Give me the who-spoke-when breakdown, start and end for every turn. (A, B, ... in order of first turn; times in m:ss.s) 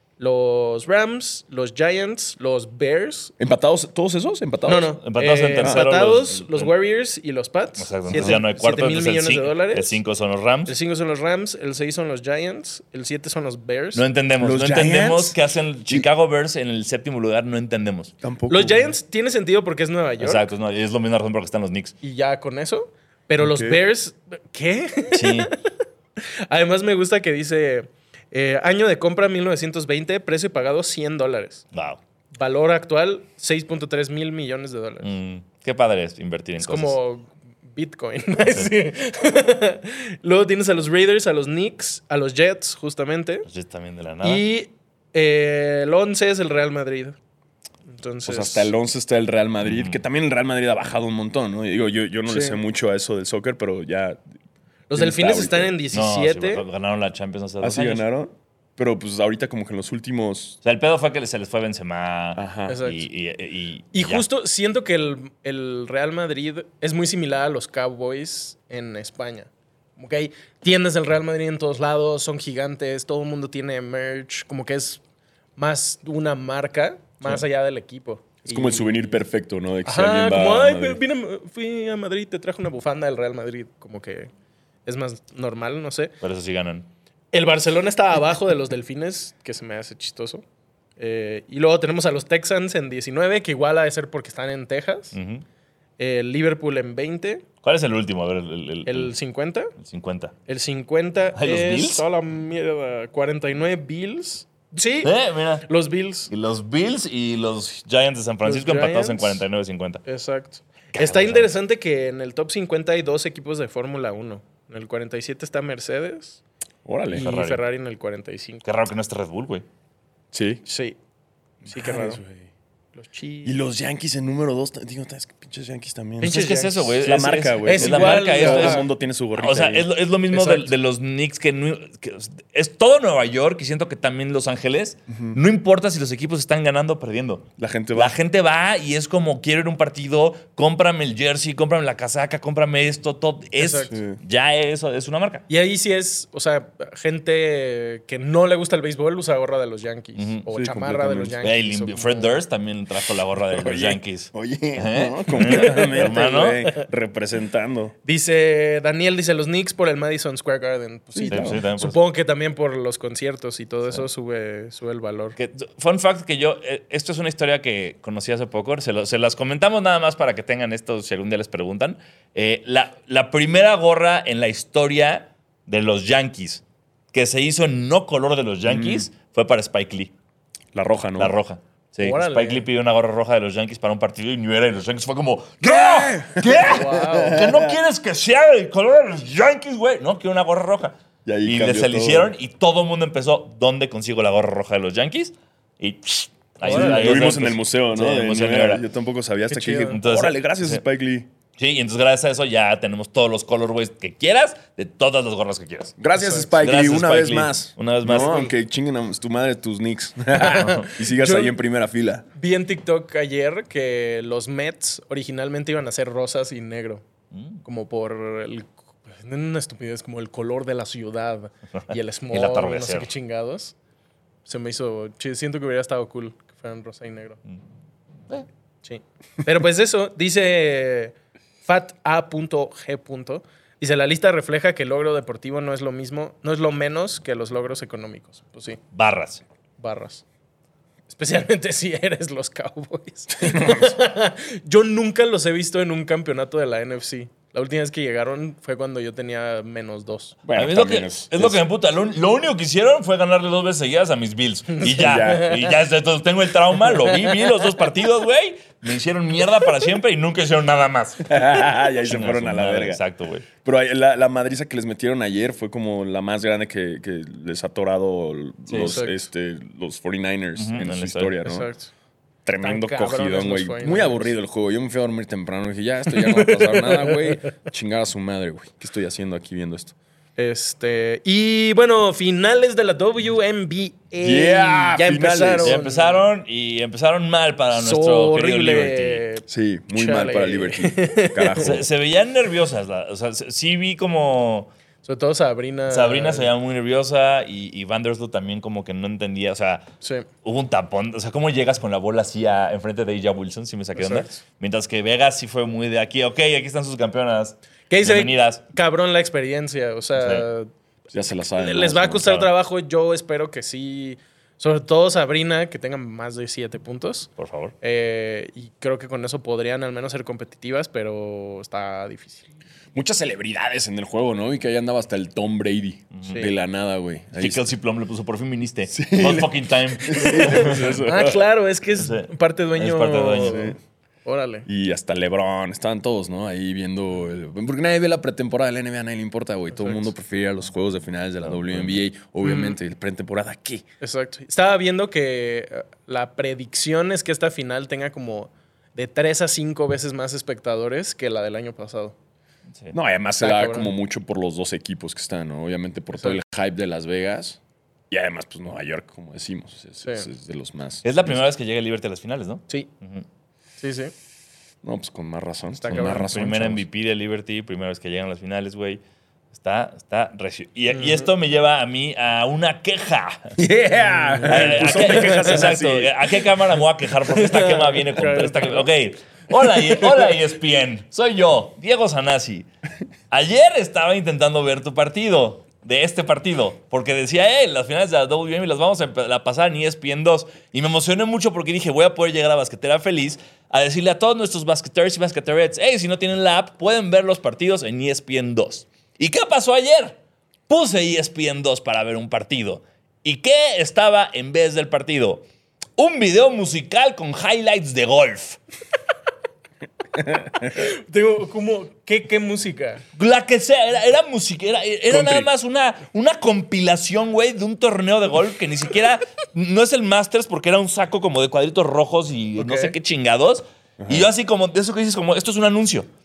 0:00.2-0:03.3 A
0:03.4-0:05.0 B
0:04.7-0:10.0 A
0:05.0-0:06.7 C
0:05.6-0:05.9 B
0:07.8-0:10.8 C
0:08.1-0:08.4 B
0:10.7-0:14.0 A
0:13.9-0:18.1 C
0:14.4-0:16.1 B
0:18.2-0:18.9 B
0:18.5-0:20.5 A
0:20.2-0:22.0 C
0:22.0-0:25.6 A
0:23.4-0:23.8 B
0:25.1-0:25.5 C
0:26.2-0:31.6 A
0:31.7-0:32.0 C
0:32.3-0:35.1 A
0:35.0-0:37.0 C
0:36.6-0:43.5 A
0:43.5-0:44.4 C
0:44.2-0:47.2 A
0:47.9-0:48.7 A
0:48.3-0:54.2 B
0:49.6-0:50.0 C
0:52.3-0:52.6 A
0:54.9-0:56.6 A
0:54.9-0:55.8 B
0:55.9-0:58.0 C
0:57.6-1:00.6 B
1:00.6-1:04.2 C
1:02.4-1:02.8 B
1:02.7-1:03.1 A
1:03.9-1:15.0 A
1:15.6-1:19.2 A
1:18.5-1:21.0 B
1:19.8-1:24.3 A
1:24.9-1:26.1 A
1:26.2-1:26.9 C
1:27.3-1:30.4 A
1:31.0-1:35.2 A
1:35.1-1:35.4 C
1:36.0-1:37.4 A
1:37.6-1:39.1 C
1:38.9-1:39.7 A
1:39.8-1:40.3 C
1:40.5-1:46.3 A
1:41.4-1:42.0 C
1:45.0-1:45.7 C
1:46.3-1:50.0 C
1:48.4-1:49.4 A
1:50.0-1:56.4 A
1:51.0-1:51.5 C
1:56.8-1:57.3 B
1:57.1-1:58.6 A
1:57.1-1:57.6 C
1:58.6-1:59.6 C
2:00.3-2:00.6 B
2:00.7-2:01.0 A
2:01.6-2:02.5 B
2:01.7-2:02.2 A
2:03.0-2:03.6 A
2:03.4-2:09.9 B
2:06.2-2:06.9 A
2:06.2-2:25.4 C
2:07.6-2:08.8 A
2:10.3-2:10.7 A
2:15.1-2:15.4 B
2:17.6-2:18.2 B
2:23.6-2:23.9 A
2:23.9-2:24.2 B
2:25.5-2:32.4 A
2:30.2-2:30.4 C
2:30.5-2:31.4 B
2:31.4-2:36.6 C
2:33.5-2:38.0 B
2:35.4-2:36.0 A
2:38.0-2:45.4 A
2:41.2-2:41.6 B
2:41.3-2:42.0 C
2:45.4-3:00.1 C
2:58.7-2:59.1 B
3:00.7-3:01.4 B
3:01.2-3:18.8 C
3:02.0-3:02.6 A
3:05.6-3:07.8 B
3:06.6-3:07.4 A
3:11.2-3:12.3 B
3:16.6-3:17.2 A
3:16.6-3:21.3 B
3:19.5-3:20.0 A
3:19.9-3:20.8 C
3:21.6-3:26.0 C
3:26.0-3:32.2 B
3:26.2-3:26.5 A
3:26.6-3:28.5 C
3:28.2-3:28.5 A
3:30.3-3:31.6 A
3:30.5-3:30.8 C
3:32.4-3:37.0 A
3:37.3-3:37.6 C
3:37.6-3:43.8 A
3:42.3-3:43.1 C
3:44.5-3:47.4 A
3:48.8-3:58.8 A
3:58.9-3:59.4 C
3:59.8-4:00.2 A
4:01.1-4:10.4 A
4:03.4-4:03.9 B
4:10.4-4:11.6 B
4:10.5-4:21.4 C
4:14.8-4:15.6 B
4:21.2-4:23.0 B
4:22.0-4:23.5 C
4:23.6-4:31.7 B
4:28.7-4:29.0 C
4:28.8-4:29.2 A
4:30.6-4:31.4 C
4:31.4-4:31.9 A
4:32.5-4:39.9 B
4:32.6-4:34.3 A
4:36.1-4:37.4 A
4:40.4-4:46.2 A
4:44.2-4:45.8 B
4:45.6-4:49.2 C
4:47.7-4:51.7 A
4:49.5-4:51.9 B
4:51.6-4:54.7 C
4:55.0-4:56.5 A
4:55.9-4:59.9 C
5:00.0-5:00.3 A
5:00.4-5:08.6 C
5:04.0-5:04.4 A
5:07.9-5:10.7 A
5:10.2-5:10.4 C
5:11.1-5:12.4 B
5:11.6-5:17.3 A
5:12.2-5:12.5 C
5:17.4-5:17.7 C
5:17.8-5:22.5 A
5:22.9-5:27.7 B
5:26.1-5:26.4 C
5:26.2-5:26.5 A
5:27.4-5:30.9 C
5:28.9-5:31.5 B
5:30.2-5:34.7 A
5:32.0-5:33.7 C
5:33.4-5:33.8 B
5:34.7-5:43.8 B
5:39.8-5:40.1 A
5:41.5-5:42.0 C
5:42.4-5:42.8 A
5:44.0-5:52.2 A
5:52.9-5:57.6 B
5:53.4-5:53.9 A
5:58.1-6:01.4 B
6:00.0-6:00.3 A
6:01.0-6:03.2 C
6:03.8-6:04.1 A
6:04.8-6:06.8 B
6:05.8-6:06.3 A
6:05.9-6:09.0 C
6:09.5-6:13.6 C
6:10.9-6:11.3 A
6:13.6-6:16.5 B
6:14.0-6:15.6 A
6:14.5-6:22.7 C
6:17.3-6:18.9 A
6:23.3-6:40.2 C
6:40.7-6:45.4 C
6:46.0-6:48.6 C
6:50.6-6:53.0 A
6:53.2-7:06.1 C
6:55.1-6:55.4 B
7:02.6-7:02.9 A
7:04.0-7:04.3 B